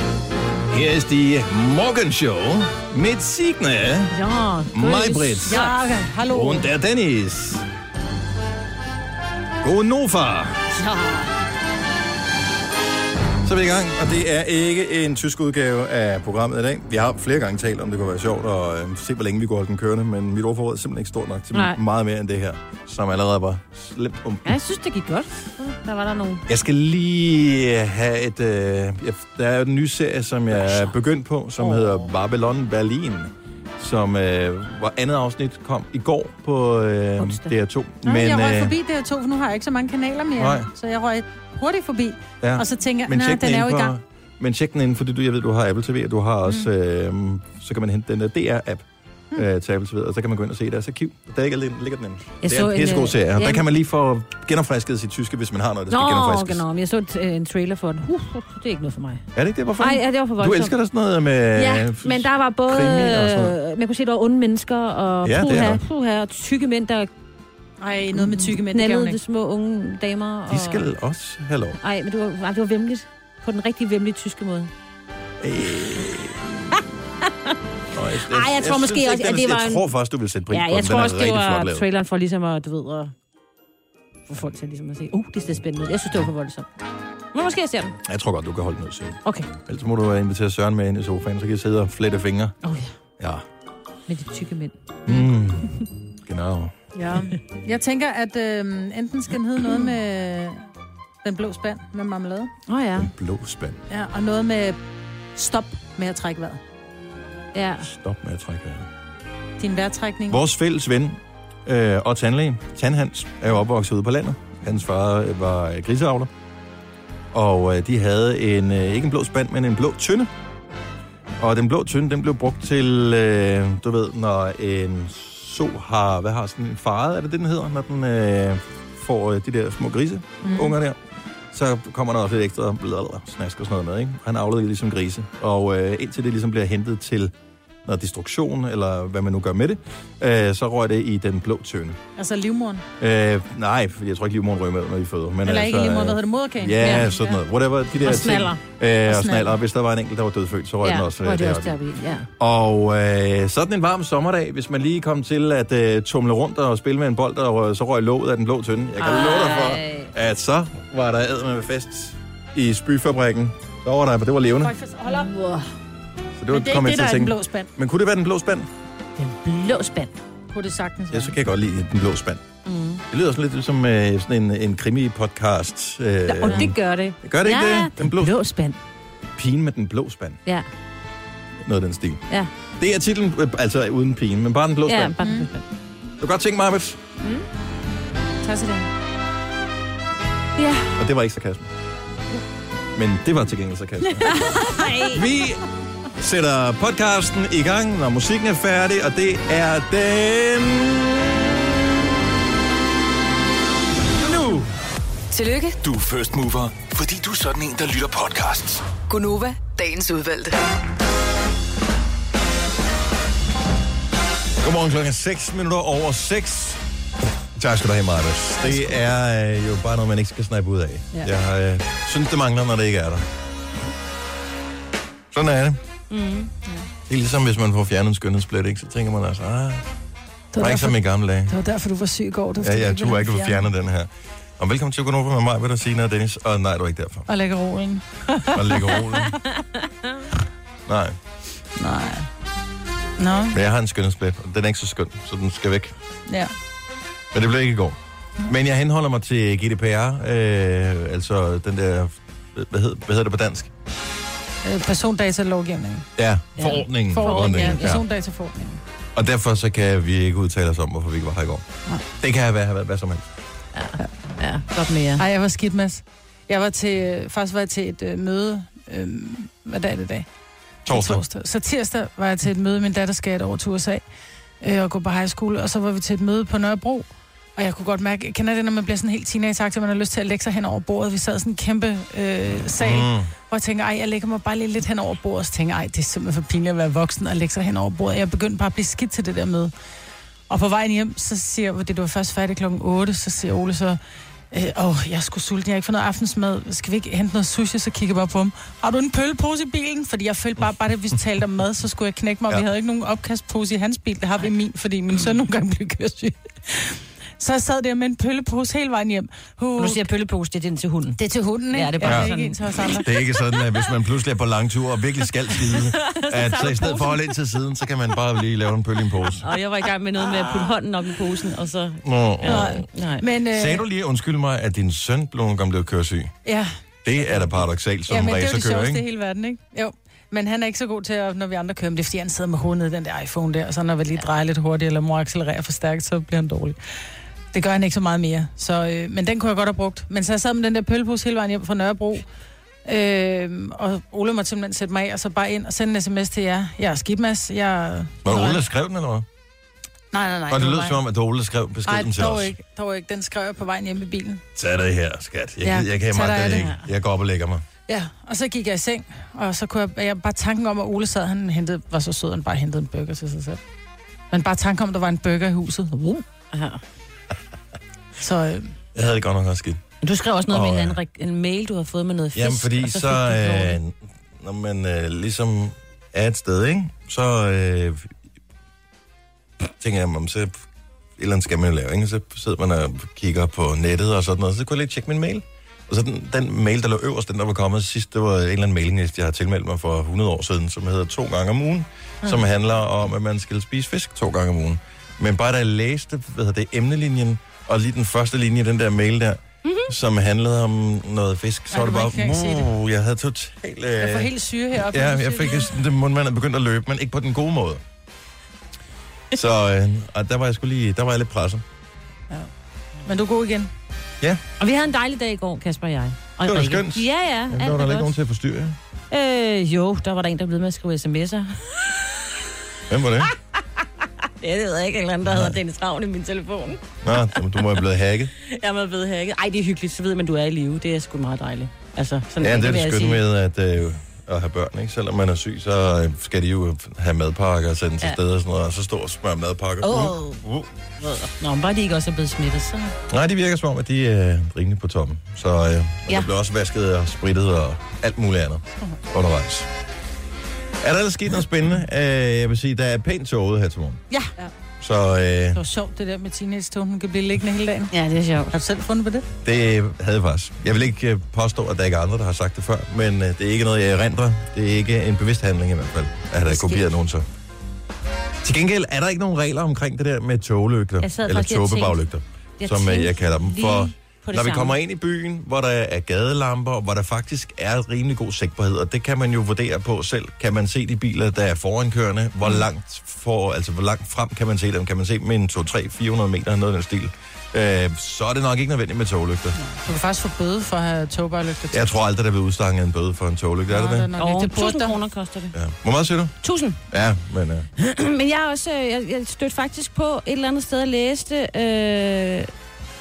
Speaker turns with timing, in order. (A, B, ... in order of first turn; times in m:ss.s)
0:00.7-0:04.2 A
0:04.1-0:05.8 B
0:04.7-0:05.6 A
0:05.5-0:06.7 C
0:06.3-0:07.7 A
0:09.6-0:10.7 A
0:10.8-0:11.3 C
0:13.4-0:24.6 A
0:21.5-0:21.8 B
0:24.4-0:26.5 B
0:26.5-0:38.7 A
0:30.6-0:30.9 B
0:31.6-0:32.1 B
0:37.2-0:37.5 B
0:38.0-0:44.0 C
0:40.4-0:40.7 A
0:42.4-0:56.6 A
0:52.4-0:53.6 B
0:55.9-0:59.3 B
0:59.4-1:03.6 A
0:59.8-1:00.7 B
1:01.7-1:07.1 B
1:05.2-1:05.8 A
1:07.8-1:09.2 C
1:08.1-1:10.8 B
1:10.5-1:11.8 A
1:11.8-1:14.7 B
1:15.4-1:16.8 A
1:17.9-1:21.8 A
1:18.3-1:19.9 B
1:20.5-1:23.1 B
1:24.3-1:26.7 B
1:27.3-1:28.0 B
1:28.0-1:32.6 A
1:32.6-1:32.9 B
1:33.2-1:33.4 A
1:34.1-1:35.3 B
1:35.1-1:36.7 A
1:36.9-1:40.7 C
1:41.2-1:42.5 C
1:42.7-1:43.1 B
1:43.0-1:43.8 A
1:43.9-1:44.8 C
1:45.4-1:46.6 C
1:47.5-1:47.9 B
1:47.8-1:48.9 A
1:49.6-1:50.4 C
1:50.3-1:56.3 A
1:57.3-2:00.3 A
2:01.4-2:11.0 A
2:10.4-2:10.7 C
2:11.5-2:17.3 A
2:17.8-2:22.0 A
2:22.2-2:22.9 C
2:23.0-2:31.8 A
2:25.4-2:27.1 C
2:26.8-2:27.3 B
2:28.0-2:28.6 B
2:29.1-2:29.5 C
2:30.8-2:32.3 B
2:32.4-2:44.7 A
2:39.0-2:40.1 B
2:44.6-2:45.5 C
2:45.2-2:45.6 B
2:46.4-2:48.7 A
2:46.5-2:47.7 C
2:49.2-2:50.2 B
2:50.5-2:51.3 C
2:51.1-2:52.4 A
2:52.7-2:53.0 B
2:53.1-2:58.4 A
2:56.3-2:58.8 B
2:59.4-3:00.4 A
3:01.6-3:05.1 A
3:04.8-3:05.6 B
3:05.2-3:05.5 C
3:06.2-3:07.0 A
3:08.4-3:08.9 C
3:10.6-3:10.9 B
3:11.0-3:11.7 A
3:13.0-3:14.4 A
3:14.3-3:15.2 B
3:15.1-3:15.6 A
3:16.2-3:21.4 A
3:24.2-3:24.7 A
3:25.3-3:25.8 D
3:25.8-3:28.9 E
3:29.1-3:30.6 D
3:34.6-3:36.8 A
3:37.6-3:43.3 A
3:45.3-3:45.8 A
3:46.1-3:46.5 B
3:47.1-3:49.9 A
3:50.5-3:53.6 C
3:50.6-3:51.5 A
3:52.6-3:57.3 A
3:57.3-3:59.0 C
3:58.5-3:59.4 A
4:00.9-4:01.2 A
4:01.8-4:02.3 C
4:03.2-4:03.6 C
4:03.5-4:06.0 A
4:07.3-4:13.7 A
4:14.6-4:16.1 C
4:16.2-4:18.0 A
4:16.6-4:18.0 B
4:17.1-4:18.8 C
4:19.2-4:23.2 A
4:23.8-4:25.2 B
4:25.2-4:30.3 C
4:30.8-4:31.2 A
4:30.9-4:34.0 C
4:34.6-4:49.7 C
4:42.8-4:43.3 A
4:50.5-4:54.0 C
4:54.5-5:10.0 C
5:09.8-5:11.2 B
5:11.2-5:13.1 C
5:11.7-5:13.4 B
5:12.0-5:12.3 A
5:13.0-5:19.5 A
5:15.7-5:17.3 B
5:19.4-5:23.2 B
5:22.0-5:22.8 A
5:22.4-5:23.8 C
5:23.5-5:26.4 A
5:26.4-5:26.8 C
5:27.0-5:29.0 A
5:28.1-5:37.0 C
5:37.5-5:42.2 C
5:42.8-5:48.6 C
5:48.2-5:49.3 A
5:50.1-5:51.0 C
5:50.5-5:52.5 A
5:51.9-5:54.4 C
5:54.6-5:57.6 A
5:55.6-5:56.7 C
5:57.9-6:03.6 C
6:04.3-6:06.3 C
6:06.5-6:06.8 B
6:08.2-6:08.8 C
6:09.0-6:09.8 A
6:10.0-6:13.8 B
6:10.5-6:11.0 A
6:12.4-6:18.1 A
6:19.8-6:20.6 A
6:21.2-6:44.3 A
6:39.6-6:39.9 B
6:41.7-6:42.7 C
6:44.0-6:45.7 C
6:44.9-6:47.8 A
6:49.3-6:51.6 A
6:53.0-6:53.7 C
6:54.6-6:58.1 B
6:56.4-6:58.8 A
6:59.1-7:02.0 B
7:02.9-7:03.3 A
7:04.4-7:06.8 B
7:05.3-7:05.6 A
7:07.0-7:08.3 A
7:07.4-7:07.7 B
7:08.4-7:13.2 B
7:12.4-7:20.7 A
7:19.8-7:20.4 B
7:21.0-7:23.0 B
7:23.1-7:29.7 A
7:30.8-7:34.0 A
7:34.1-7:34.5 C
7:34.8-7:35.6 A
7:35.5-7:38.0 C
7:37.9-7:38.5 B
7:38.5-7:39.3 C
7:39.4-7:47.3 A
7:46.5-7:46.8 C
7:48.4-8:09.6 A
7:51.0-7:52.0 B
7:52.6-7:54.8 B
8:09.7-8:11.9 C
8:11.7-8:14.1 A
8:13.7-8:15.0 C
8:14.2-8:15.6 B
8:15.5-8:16.4 A
8:16.4-8:16.8 B
8:16.9-8:17.7 A
8:17.8-8:22.5 B